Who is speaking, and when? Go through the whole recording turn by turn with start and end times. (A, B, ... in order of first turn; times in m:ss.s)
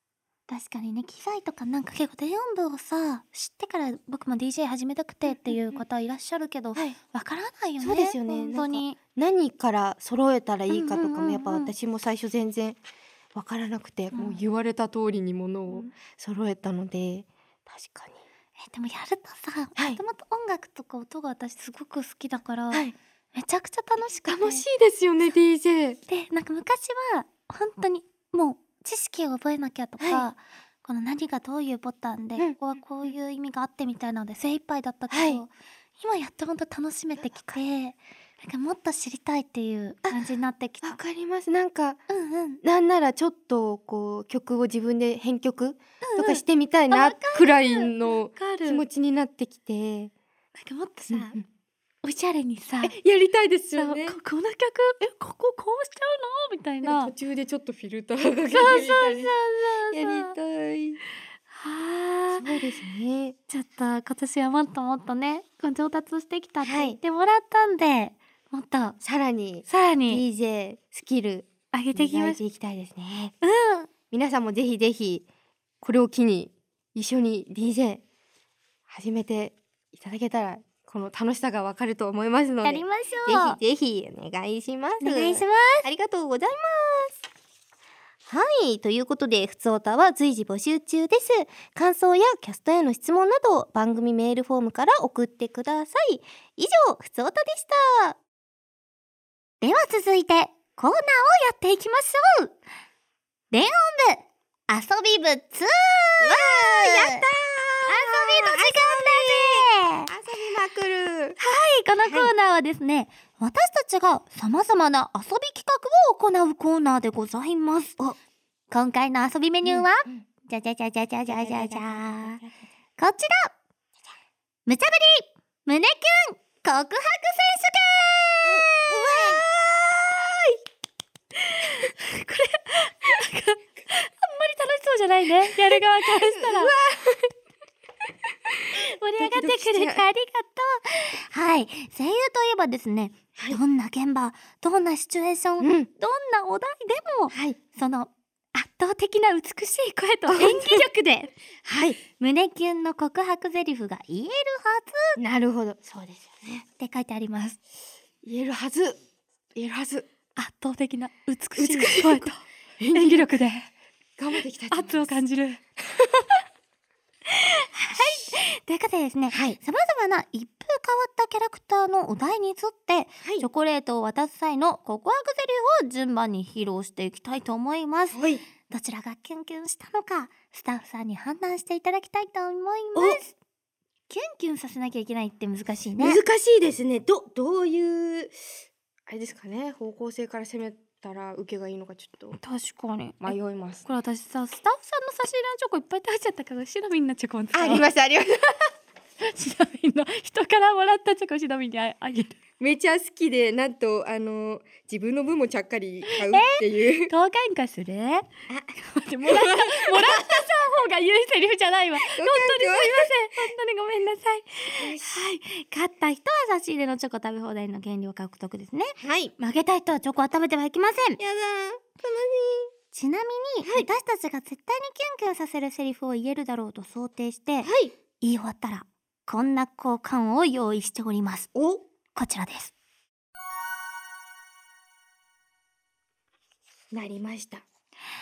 0:00.5-0:09.0 A
0:05.3-0:05.8 B
0:07.8-0:12.8 B
0:10.7-0:11.7 A
0:13.3-0:18.2 B
0:14.1-0:14.4 A
0:18.6-0:24.7 A
0:24.3-0:26.0 B
0:26.1-0:41.0 A
0:30.0-0:30.3 B
0:35.1-0:35.4 B
0:40.8-0:42.0 B
0:42.1-0:42.6 A
0:42.6-0:50.1 B
0:46.0-0:48.8 A
0:50.6-0:51.4 A
0:51.1-0:51.4 B
0:52.0-0:53.0 A
0:52.8-0:54.2 B
0:53.8-0:57.1 A
0:56.8-0:59.3 B
0:58.5-1:00.3 A
0:59.9-1:01.0 B
1:01.5-1:02.5 A
1:02.3-1:03.4 B
1:03.5-1:09.0 A
1:06.6-1:07.0 B
1:09.0-1:13.3 B
1:09.7-1:10.2 A
1:11.7-1:12.4 A
1:13.4-1:13.9 A
1:14.1-1:15.3 B
1:15.8-1:18.0 B
1:18.9-1:27.2 B
1:22.6-1:23.6 A
1:25.0-1:25.9 A
1:28.3-1:38.2 B
1:39.6-1:42.6 A
1:43.5-1:47.2 A
1:46.2-1:51.4 B
1:47.9-1:50.1 A
1:51.4-1:58.0 A
1:52.0-1:52.3 B
1:58.7-2:02.4 A
1:59.6-2:00.3 B
2:01.3-2:02.6 B
2:03.0-2:03.5 A
2:04.7-2:09.4 A
2:08.4-2:10.6 B
2:11.4-2:16.8 A
2:15.5-2:17.3 B
2:18.5-2:20.0 B
2:18.7-2:31.3 A
2:25.6-2:25.9 B
2:27.3-2:27.6 B
2:30.3-2:30.8 B
2:31.6-2:32.0 B
2:32.2-2:35.2 A
2:35.2-2:36.6 B
2:36.8-2:37.6 A
2:38.2-2:39.0 B
2:39.6-2:40.1 B
2:40.4-2:42.4 A
2:41.6-2:43.4 B
2:42.9-2:43.7 A
2:44.2-2:45.2 B
2:44.7-2:45.6 A
2:47.3-3:03.3 A
2:48.0-2:48.3 B
2:49.3-2:49.6 B
2:58.1-2:58.4 B
3:03.0-3:03.2 B
3:04.1-3:06.2 A
3:06.0-3:08.4 B
3:09.1-3:12.4 B
3:12.4-3:17.9 A
3:13.2-3:13.9 B
3:17.5-3:18.7 B
3:19.2-3:22.4 A
3:22.6-3:27.1 B
3:26.1-3:41.2 A
3:29.2-3:30.4 B
3:32.0-3:33.1 B
3:34.8-3:35.2 B
3:39.0-3:39.3 B
3:41.2-3:42.7 B
3:42.9-3:51.5 A
3:43.6-3:43.9 B
3:47.6-3:47.9 B
3:51.5-3:51.8 B
3:52.2-3:52.7 A
3:56.9-3:57.6 B